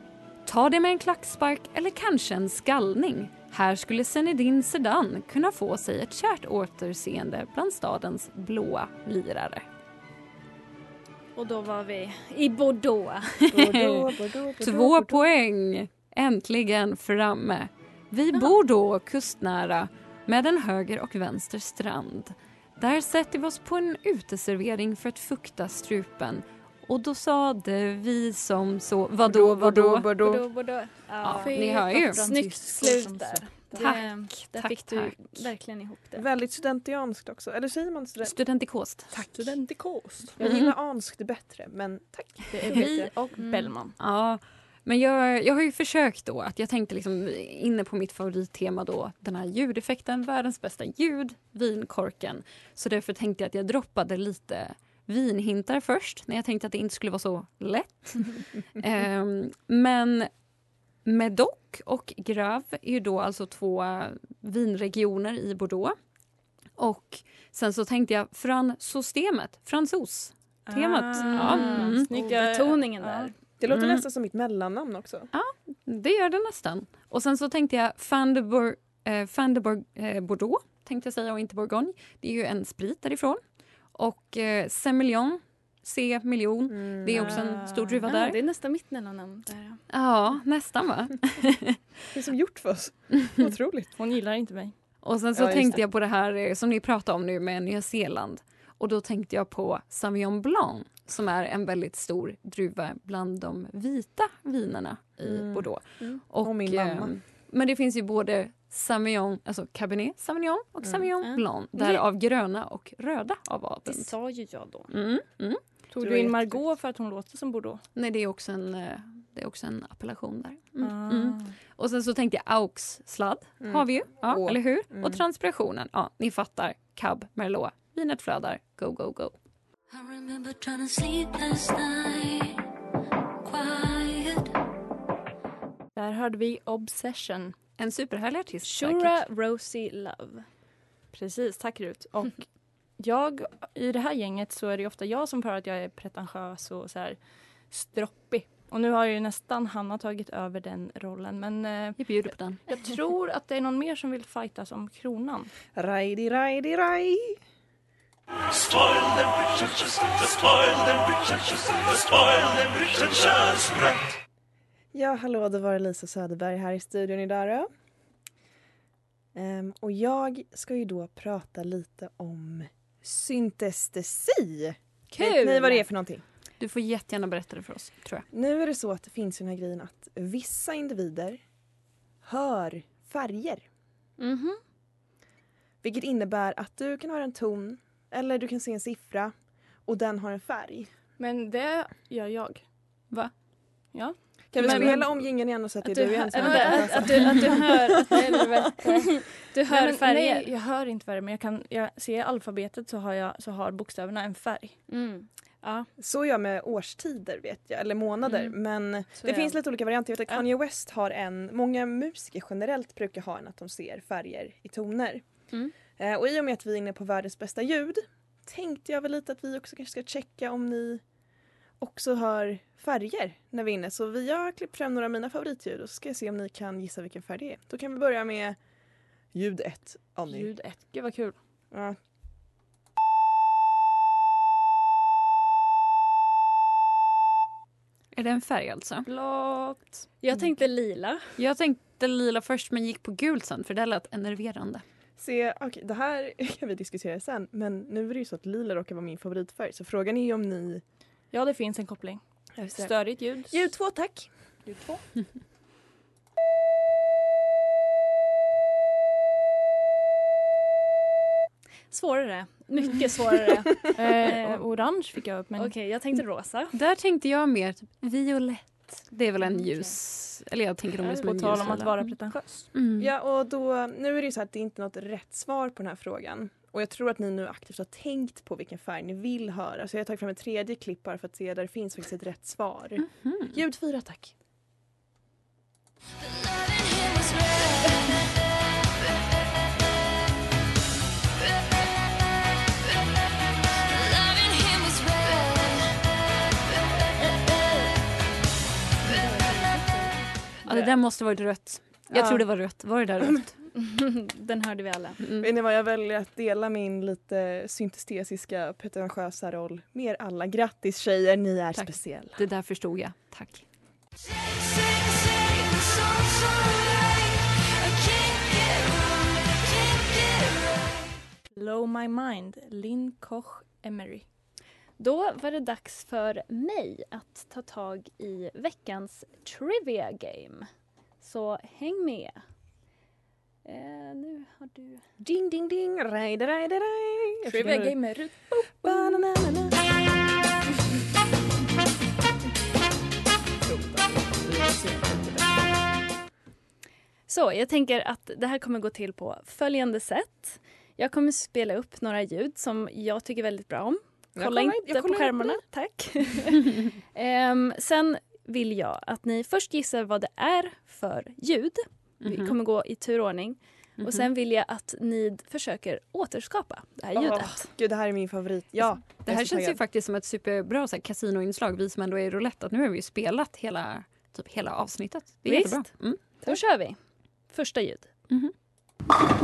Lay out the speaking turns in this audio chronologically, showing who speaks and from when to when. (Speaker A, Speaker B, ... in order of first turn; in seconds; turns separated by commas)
Speaker A: 0.5-9.6, Speaker B: 11.3-13.4, Speaker A: 13.5-14.0, Speaker C: 13.5-15.2, Speaker A: 14.6-30.1, Speaker C: 29.2-30.4, Speaker B: 30.1-36.2, Speaker A: 31.2-32.2, Speaker D: 31.4-33.9, Speaker A: 33.8-35.4, Speaker C: 36.1-38.3, Speaker A: 38.2-39.3, Speaker D: 39.1-40.3, Speaker C: 40.4-42.9, Speaker A: 40.4-40.7, Speaker D: 42.5-43.9, Speaker A: 42.7-43.0, Speaker B: 43.4-43.7, Speaker A: 44.0-60.3, Speaker A: 61.0-66.0, Speaker A: 66.8-72.1, Speaker D: 70.7-73.3, Speaker B: 71.2-73.3, Speaker C: 73.6-75.3, Speaker A: 73.7-74.0, Speaker A: 75.3-83.4, Speaker A: 83.9-88.4, Speaker C: 86.7-87.4, Speaker D: 87.1-88.0, Speaker B: 88.0-89.8, Speaker A: 89.9-91.8, Speaker C: 92.1-93.9, Speaker D: 94.0-94.7, Speaker A: 95.0-114.1, Speaker C: 95.3-95.8, Speaker C: 105.2-107.2, Speaker B: 111.2-112.0, Speaker B: 113.8-114.9, Speaker A: 114.9-115.6, Speaker D: 115.9-117.8, Speaker C: 116.0-116.6, Speaker A: 117.9-129.3, Speaker D: 120.8-121.5, Speaker C: 123.6-125.2, Speaker E: 129.9-132.6, Speaker E: 133.4-134.4, Speaker D: 135.9-137.5, Speaker A: 137.8-139.2, Speaker B: 138.6-140.4, Speaker D: 141.1-142.4, Speaker D: 143.0-147.2, Speaker D: 147.7-152.0, Speaker A: 152.0-152.6, Speaker D: 152.7-155.5, Speaker C: 155.7-157.4, Speaker C: 159.3-161.4, Speaker C: 162.3-163.8, Speaker C: 164.9-167.7, Speaker C: 169.3-176.2, Speaker B: 175.1-175.8, Speaker A: 176.6-178.2, Speaker C: 178.3-181.4, Speaker C: 182.2-183.6, Speaker B: 184.2-184.6, Speaker C: 185.8-189.3, Speaker C: 189.8-190.9, Speaker D: 191.2-192.6, Speaker D: 193.9-195.2, Speaker C: 194.5-198.7, Speaker B: 194.6-194.9, Speaker B: 195.8-200.5, Speaker D: 196.3-199.0, Speaker D: 199.7-204.8, Speaker B: 204.9-205.9, Speaker C: 206.0-215.2, Speaker B: 209.2-209.6, Speaker C: 215.9-221.0, Speaker C: 221.8-228.6, Speaker C: 229.3-230.5, Speaker D: 230.3-231.4, Speaker C: 231.7-232.0, Speaker A: 238.1-239.1, Speaker D: 239.1-239.8, Speaker B: 240.2-241.3, Speaker A: 241.4-244.8, Speaker C: 245.2-250.8, Speaker D: 251.3-252.2, Speaker C: 252.6-252.9, Speaker D: 252.7-253.6, Speaker C: 253.5-254.3, Speaker D: 254.7-255.0, Speaker B: 261.9-264.6, Speaker D: 263.9-265.7, Speaker B: 265.6-266.7, Speaker A: 266.7-272.1, Speaker B: 269.4-269.9, Speaker D: 271.0-272.7, Speaker A: 272.7-273.1, Speaker C: 273.0-284.3, Speaker A: 283.2-283.5, Speaker E: 286.2-288.3, Speaker E: 293.9-296.0, Speaker D: 299.1-300.1, Speaker A: 300.6-303.5, Speaker C: 302.1-302.4, Speaker B: 303.7-305.2, Speaker A: 305.2-305.5, Speaker C: 305.4-312.4, Speaker A: 311.7-313.6, Speaker E: 315.3-316.9, Speaker E: 317.8-320.5, Speaker D: 321.5-324.2, Speaker B: 325.0-330.7, Speaker B: 331.2-332.4, Speaker B: 333.6-335.0, Speaker C: 335.2-338.0, Speaker D: 337.4-339.2, Speaker C: 338.7-339.8, Speaker C: 343.6-345.7, Speaker B: 347.3-367.7, Speaker C: 354.4-355.6, Speaker A: 362.2-362.5, Speaker A: 364.0-364.3, Speaker C: 367.1-369.8, Speaker A: 369.2-376.2, Speaker B: 375.4-377.0, Speaker B: 377.5-378.1